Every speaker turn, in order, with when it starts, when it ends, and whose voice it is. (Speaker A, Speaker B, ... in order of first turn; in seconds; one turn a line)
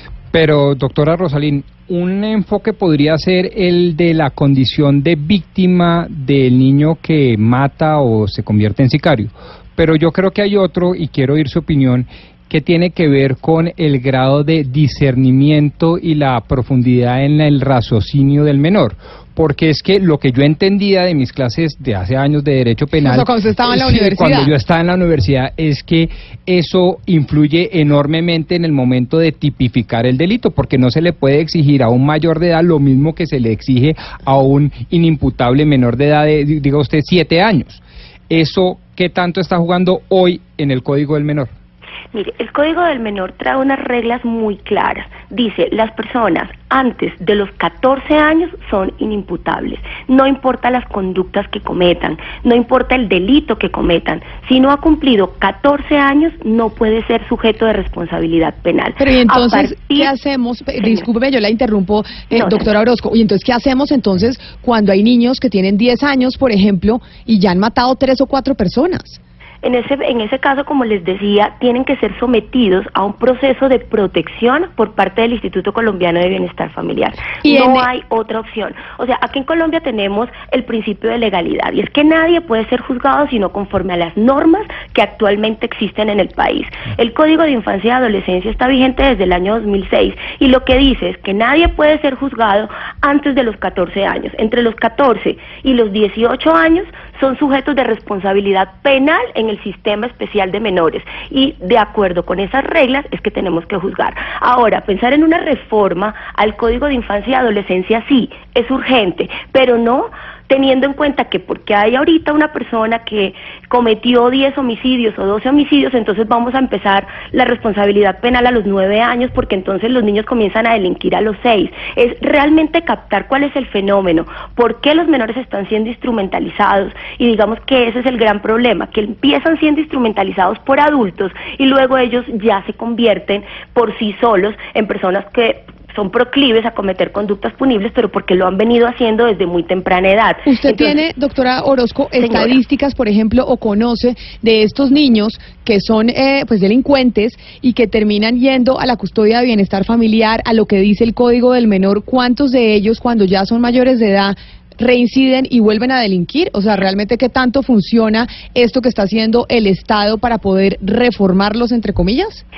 Speaker A: 0.3-41.5
Speaker B: 23.0-24.5
Speaker C: 42.1-60.1
Speaker B: 59.0-69.2
Speaker C: 62.3-62.6
Speaker C: 69.6-141.0
Speaker B: 77.4-77.9
Speaker B: 140.5-162.4
Speaker C: 142.2-142.6